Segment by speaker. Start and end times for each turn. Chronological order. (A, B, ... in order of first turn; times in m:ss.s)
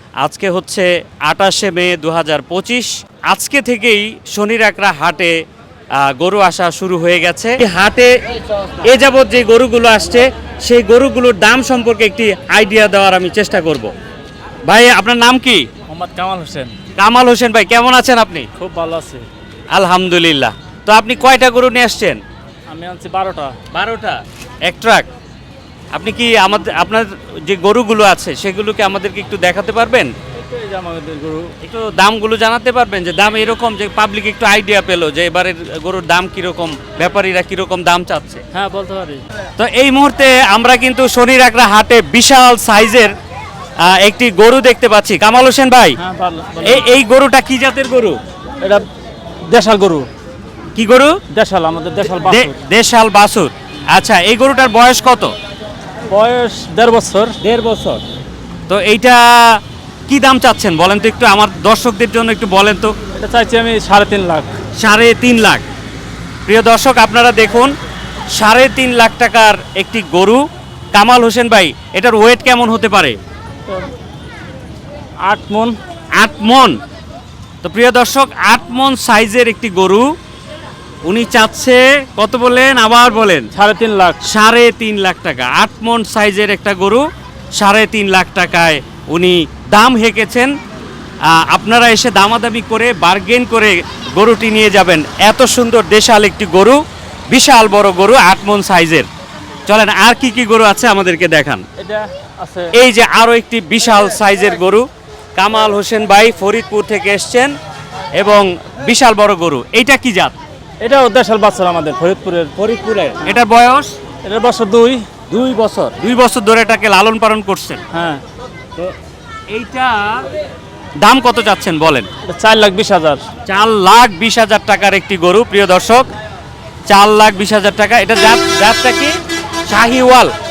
0:00.2-0:05.4 A
0:06.0-0:08.2 A
0:08.8-0:13.9 A
0:14.6-0:15.6 A
0:15.9-0:16.8 B
0:16.9-0:18.5 A
0:18.6-0:19.2 B
0:19.7-0:22.2 A
0:22.7-0:23.6 B
0:23.7-0:25.0 A
0:25.9-0:30.1 A
0:30.3-0:31.5 B
0:31.6-0:38.4 A
0:38.5-0:39.2 B
0:39.6-0:43.1 A
0:43.8-0:46.0 A
0:46.0-0:46.8 B
0:46.6-0:48.2 A
0:49.5-0:50.1 B
0:50.8-0:51.2 A
0:51.3-0:52.6 B
0:52.3-0:55.3 A
0:56.1-0:57.4 B
0:57.4-0:58.0 A
0:58.7-1:02.9 A
1:03.2-1:04.6 B
1:04.8-1:05.6 A
1:06.4-1:07.7 A
1:08.3-1:10.4 A
1:10.9-1:13.2 A
1:15.2-1:15.8 B
1:16.2-1:16.8 A
1:17.6-1:20.1 A
1:21.0-1:23.5 A
1:23.5-1:24.2 B
1:24.2-1:27.0 A
1:27.6-1:30.5 A
1:31.3-1:39.1 A
1:39.7-1:41.6 A
1:41.8-1:42.7 B
1:42.7-1:47.5 A
1:48.2-1:50.3 A
1:50.8-1:52.5 B
1:52.6-1:53.9 A
1:54.2-1:55.0 B
1:55.3-1:57.8 A
1:57.9-1:58.2 B
1:59.5-2:00.3 A
2:01.0-2:02.1 A
2:02.2-2:03.2 B
2:03.5-2:06.1 A
2:06.9-2:10.3 A